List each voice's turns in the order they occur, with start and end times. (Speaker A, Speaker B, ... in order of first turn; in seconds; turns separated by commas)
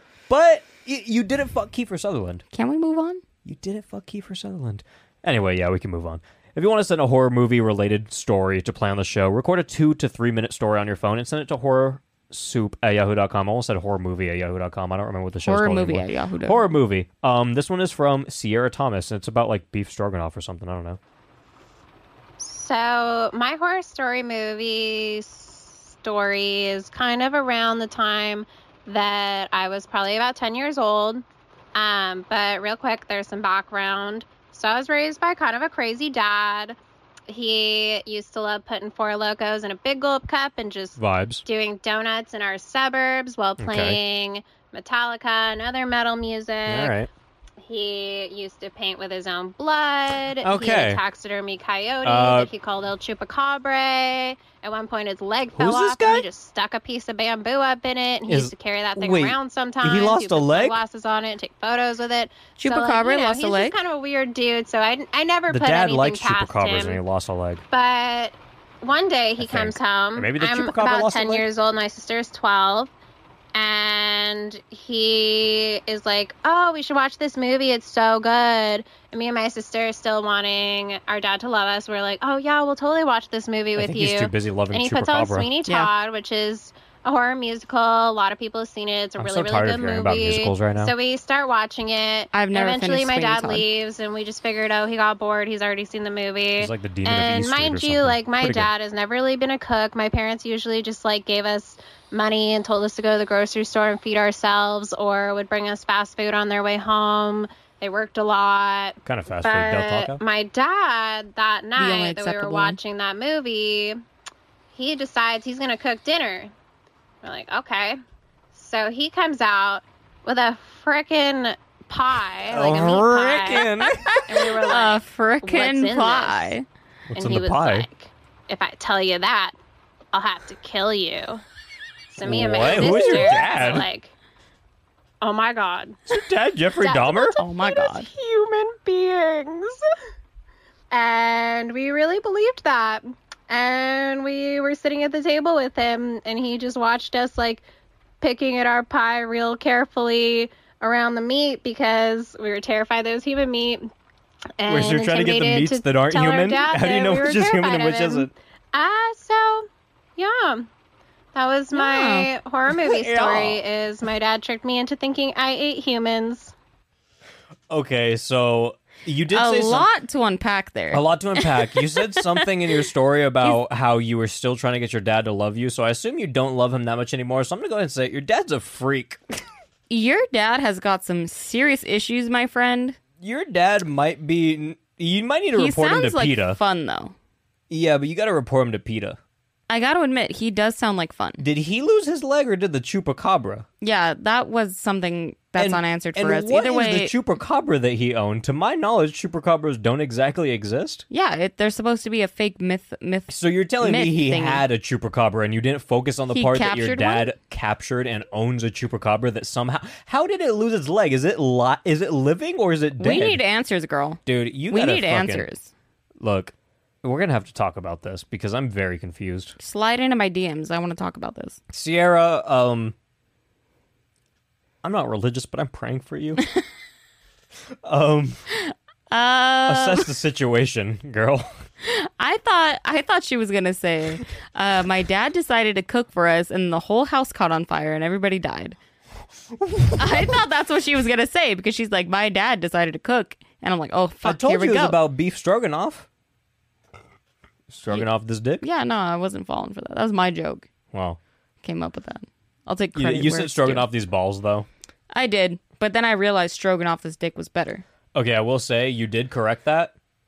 Speaker A: 0.3-2.4, Speaker B: 2.5-3.2, Speaker A: 3.4-21.0, Speaker B: 15.4-16.6, Speaker C: 22.4-31.2, Speaker C: 31.7-36.8, Speaker C: 37.3-46.9, Speaker A: 41.0-41.4, Speaker A: 43.6-44.0, Speaker A: 46.6-47.1, Speaker C: 47.6-67.0, Speaker A: 50.4-51.0, Speaker A: 52.0-52.5, Speaker A: 55.5-56.2, Speaker A: 58.3-60.8, Speaker B: 62.6-63.8, Speaker A: 65.5-67.6, Speaker C: 67.7-72.9, Speaker A: 69.4-71.5, Speaker C: 73.5-114.0, Speaker A: 83.8-85.5, Speaker A: 89.2-90.9, Speaker B: 92.3-93.6, Speaker A: 96.6-98.7, Speaker A: 109.0-110.2, Speaker B: 111.8-112.8, Speaker C: 114.7-116.5, Speaker C: 117.2-118.0, Speaker C: 118.5-123.7, Speaker A: 122.5-124.5, Speaker B: 124.1-126.6, Speaker C: 124.3-126.5, Speaker A: 127.1-127.9, Speaker C: 127.1-129.5, Speaker C: 130.1-131.4, Speaker C: 132.1-134.1, Speaker A: 132.2-133.9, Speaker C: 135.2-136.2, Speaker A: 136.1-137.4, Speaker C: 136.8-139.8, Speaker B: 137.4-138.1, Speaker C: 140.9-147.6, Speaker C: 148.2-153.9, Speaker C: 154.6-160.7, Speaker A: 154.7-158.3, Speaker C: 161.3-166.5, Speaker B: 161.7-162.3, Speaker A: 162.7-163.6, Speaker A: 167.7-169.9, Speaker B: 169.3-172.4, Speaker A: 170.9-179.2, Speaker B: 179.9-183.0, Speaker A: 183.2-186.6, Speaker B: 185.5-187.1, Speaker A: 187.7-189.2, Speaker B: 189.7-191.4, Speaker A: 191.4-193.7, Speaker B: 193.8-197.1, Speaker A: 195.5-201.0, Speaker B: 201.1-204.6, Speaker A: 203.3-213.4, Speaker B: 206.3-207.3, Speaker B: 213.0-215.7, Speaker A: 214.2-215.5, Speaker A: 216.2-219.5, Speaker B: 219.6-221.6, Speaker A: 221.7-222.9, Speaker A: 224.8-226.4, Speaker A: 227.8-228.4, Speaker B: 228.7-230.1, Speaker A: 229.6-231.5, Speaker B: 231.8-238.8, Speaker A: 239.6-240.3, Speaker B: 239.9-245.0, Speaker A: 244.2-246.1, Speaker A: 247.7-248.6, Speaker B: 248.6-250.7, Speaker A: 250.9-251.2, Speaker B: 251.6-253.9, Speaker A: 252.9-254.7, Speaker B: 255.1-257.8, Speaker A: 258.1-259.9